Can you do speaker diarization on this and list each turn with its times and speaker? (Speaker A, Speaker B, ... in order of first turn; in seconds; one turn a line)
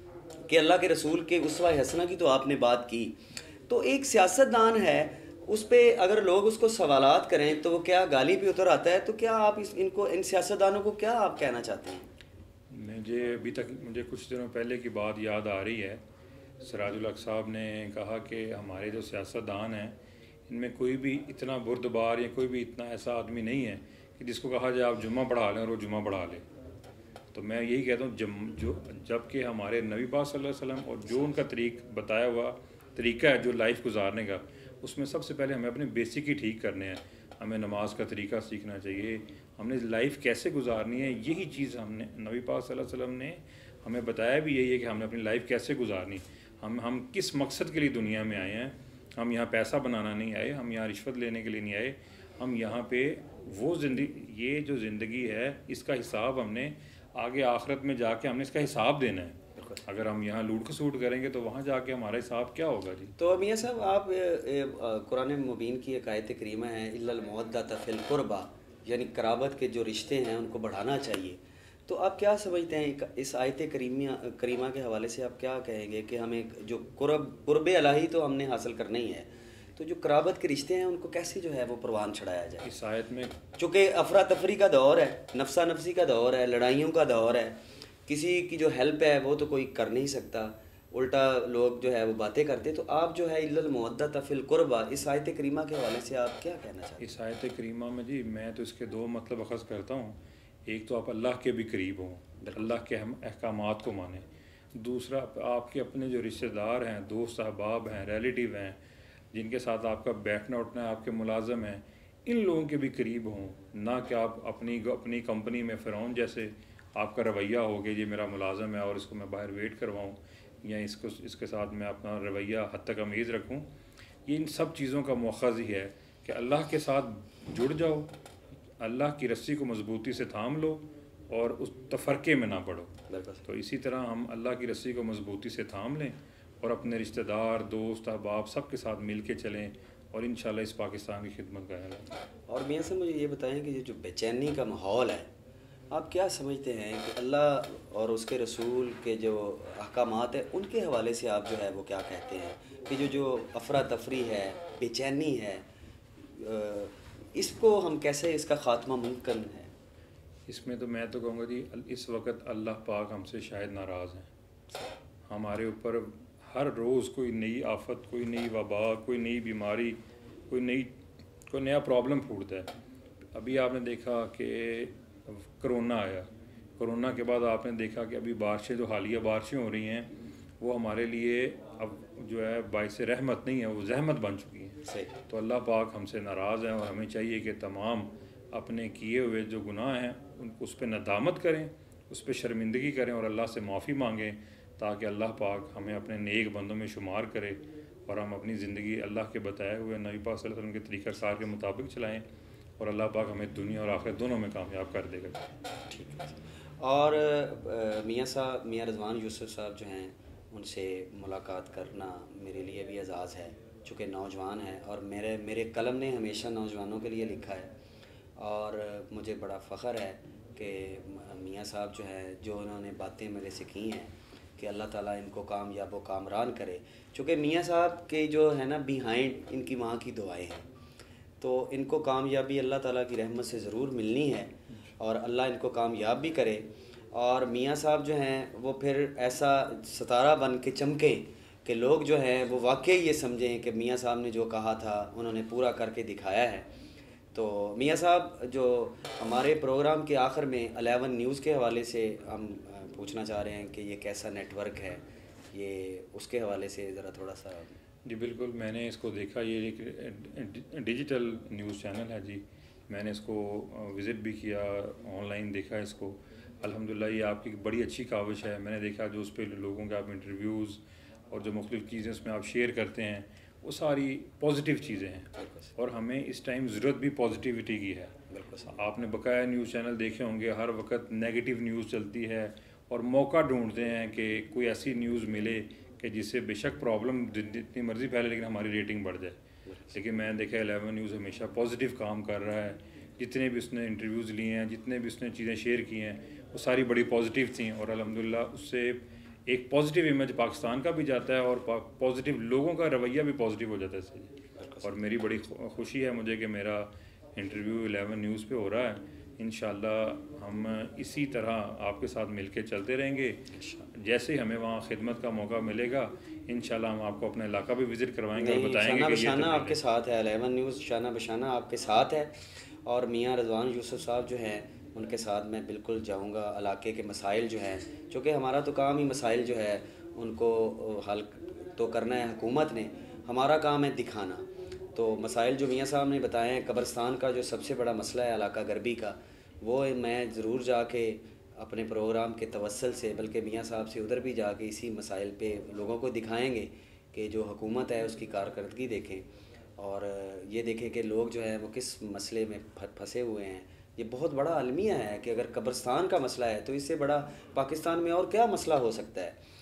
Speaker A: 0.5-12.1
Speaker B: 12.7-16.0
Speaker B: 16.6-20.0
Speaker B: 20.5-26.5
Speaker B: 27.3-63.1
Speaker A: 59.6-59.8
Speaker A: 63.2-82.7
Speaker B: 82.6-83.4
Speaker A: 83.6-97.1
Speaker B: 97.0-108.8
Speaker A: 102.4-102.7
Speaker B: 109.3-123.7
Speaker B: 124.3-128.1
Speaker B: 128.8-132.9
Speaker A: 133.1-133.4
Speaker B: 133.5-142.1
Speaker A: 142.5-145.3
Speaker A: 145.9-155.7
Speaker A: 156.2-159.7
Speaker B: 160.5-164.3
Speaker B: 165.3-170.0
Speaker B: 170.5-171.0
Speaker B: 171.5-172.7
Speaker B: 173.3-176.3
Speaker B: 176.8-180.1
Speaker B: 180.6-202.2
Speaker A: 184.9-185.1
Speaker B: 202.8-205.5
Speaker A: 205.9-217.7
Speaker A: 218.4-230.7
Speaker A: 231.4-246.7
Speaker A: 247.3-257.8
Speaker B: 258.1-278.1
Speaker A: 275.4-275.7
Speaker A: 278.3-278.7
Speaker B: 278.6-289.4
Speaker A: 289.7-290.0
Speaker B: 289.9-304.3
Speaker A: 304.6-304.9
Speaker B: 304.8-313.4
Speaker A: 313.5-313.9
Speaker B: 313.9-319.8
Speaker A: 318.4-349.3
Speaker A: 349.8-359.4